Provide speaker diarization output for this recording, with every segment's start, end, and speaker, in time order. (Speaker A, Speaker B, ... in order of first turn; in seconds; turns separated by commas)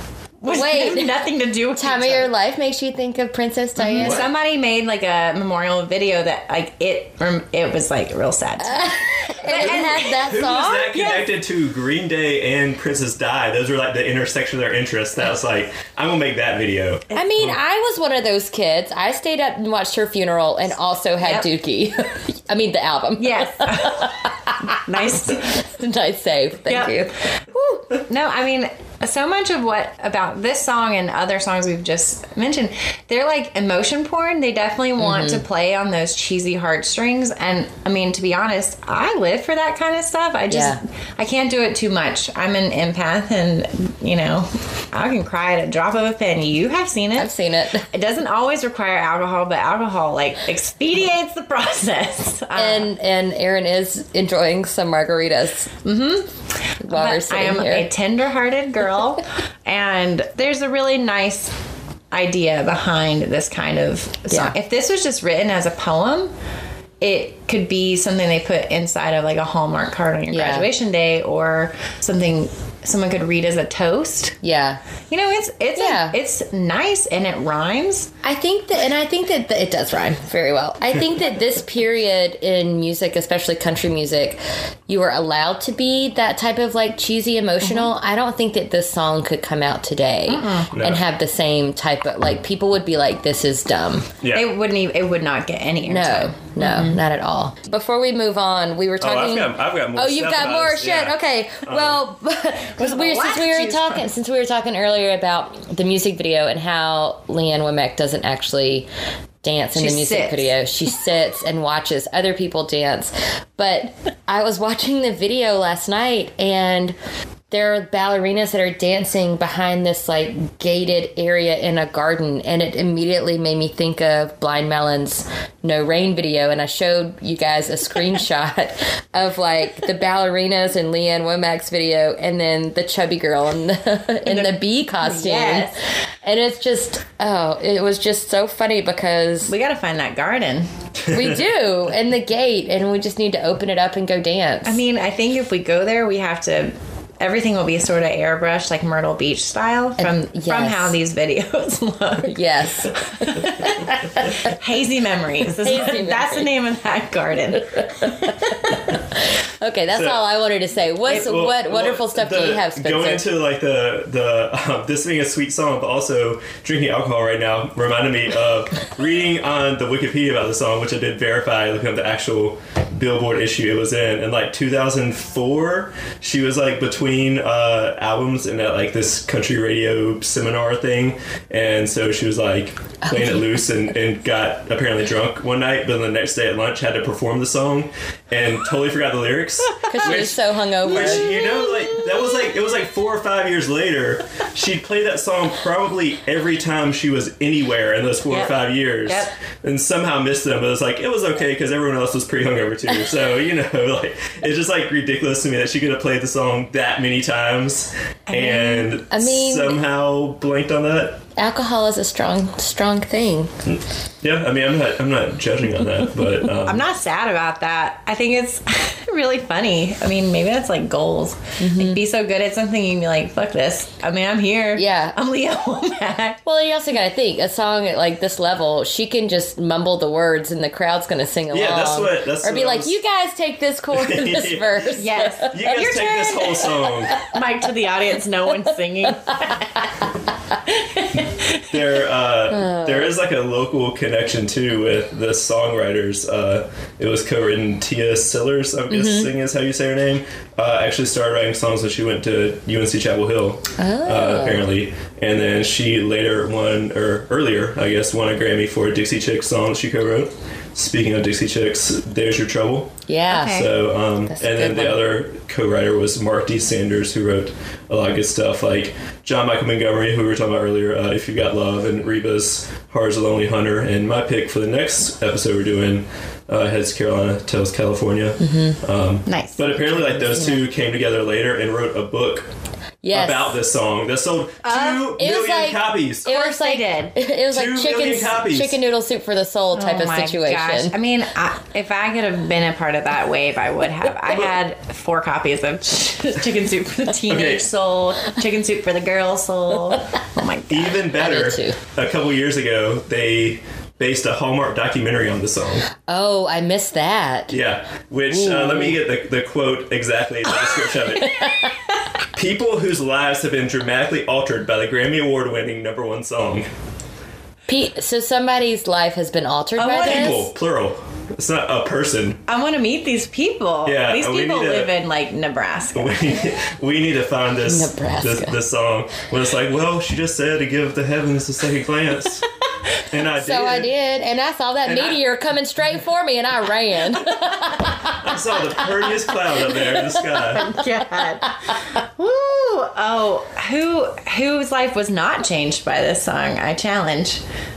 Speaker A: 0.4-2.3, Speaker B: 0.5-1.1, Speaker B: 1.8-4.2, Speaker A: 3.8-10.2, Speaker C: 4.0-4.3, Speaker B: 8.6-11.1, Speaker C: 9.6-17.6, Speaker A: 10.9-11.2, Speaker B: 17.1-27.2, Speaker A: 21.2-21.5, Speaker A: 23.2-24.2, Speaker A: 24.7-25.6, Speaker A: 26.7-47.3, Speaker B: 35.0-35.4, Speaker B: 40.5-40.8, Speaker B: 47.2-47.9, Speaker A: 47.9-52.9, Speaker B: 52.5-55.7, Speaker A: 55.9-56.3, Speaker B: 56.8-57.9, Speaker A: 56.9-61.5, Speaker A: 62.1-66.3, Speaker B: 64.3-64.5, Speaker A: 67.0-74.4, Speaker B: 70.3-70.7, Speaker B: 74.4-74.8, Speaker A: 75.1-78.1, Speaker B: 75.8-76.2, Speaker B: 78.2-94.1, Speaker A: 87.6-87.9, Speaker A: 90.3-90.7, Speaker C: 90.7-91.0, Speaker C: 94.2-94.5, Speaker A: 94.3-97.0, Speaker B: 95.9-108.9, Speaker C: 99.0-102.0, Speaker A: 102.8-104.0, Speaker B: 109.4-117.0, Speaker A: 109.8-110.5, Speaker B: 117.5-135.7, Speaker A: 134.3-135.8, Speaker B: 136.2-139.5, Speaker A: 139.5-140.7, Speaker C: 141.1-141.4, Speaker B: 141.1-144.8, Speaker A: 144.7-158.8, Speaker B: 150.0-151.0, Speaker B: 152.3-154.3, Speaker B: 155.6-156.5, Speaker B: 157.8-163.2, Speaker C: 159.9-160.2, Speaker C: 161.1-211.2, Speaker B: 183.1-183.4, Speaker A: 189.7-190.3, Speaker B: 189.9-191.2, Speaker A: 191.0-192.1, Speaker A: 198.3-199.3, Speaker A: 208.3-208.9, Speaker B: 208.5-209.8, Speaker B: 211.4-213.5, Speaker C: 213.7-216.8, Speaker A: 216.7-226.4, Speaker B: 221.6-222.0, Speaker B: 224.8-225.2, Speaker B: 226.4-235.5, Speaker C: 231.5-233.0, Speaker C: 233.9-234.9, Speaker A: 235.0-240.0, Speaker C: 235.5-237.2, Speaker A: 240.7-241.7, Speaker C: 241.7-282.5, Speaker B: 242.5-243.1, Speaker B: 248.9-249.3, Speaker B: 253.8-254.7, Speaker B: 263.1-263.7, Speaker A: 263.3-263.7, Speaker B: 264.3-265.0, Speaker B: 278.4-278.8, Speaker A: 279.3-280.1, Speaker B: 280.2-280.6, Speaker B: 283.0-283.6, Speaker C: 283.1-286.3, Speaker A: 284.6-285.0, Speaker B: 285.0-290.9, Speaker A: 286.3-287.2, Speaker C: 287.5-288.8, Speaker A: 289.7-301.0, Speaker C: 297.3-297.7, Speaker C: 300.7-305.9, Speaker B: 301.1-301.8, Speaker B: 306.1-307.6, Speaker C: 307.5-311.4, Speaker B: 308.3-309.0, Speaker B: 311.2-311.7, Speaker C: 312.3-316.7, Speaker B: 317.7-320.5, Speaker A: 319.8-320.4, Speaker C: 319.8-322.4, Speaker A: 322.5-326.4, Speaker C: 323.9-324.9, Speaker C: 325.9-332.5, Speaker B: 327.7-328.6, Speaker C: 333.0-333.9, Speaker B: 333.4-338.4, Speaker C: 334.9-335.2, Speaker C: 338.1-340.7, Speaker B: 339.6-340.5, Speaker A: 340.5-347.4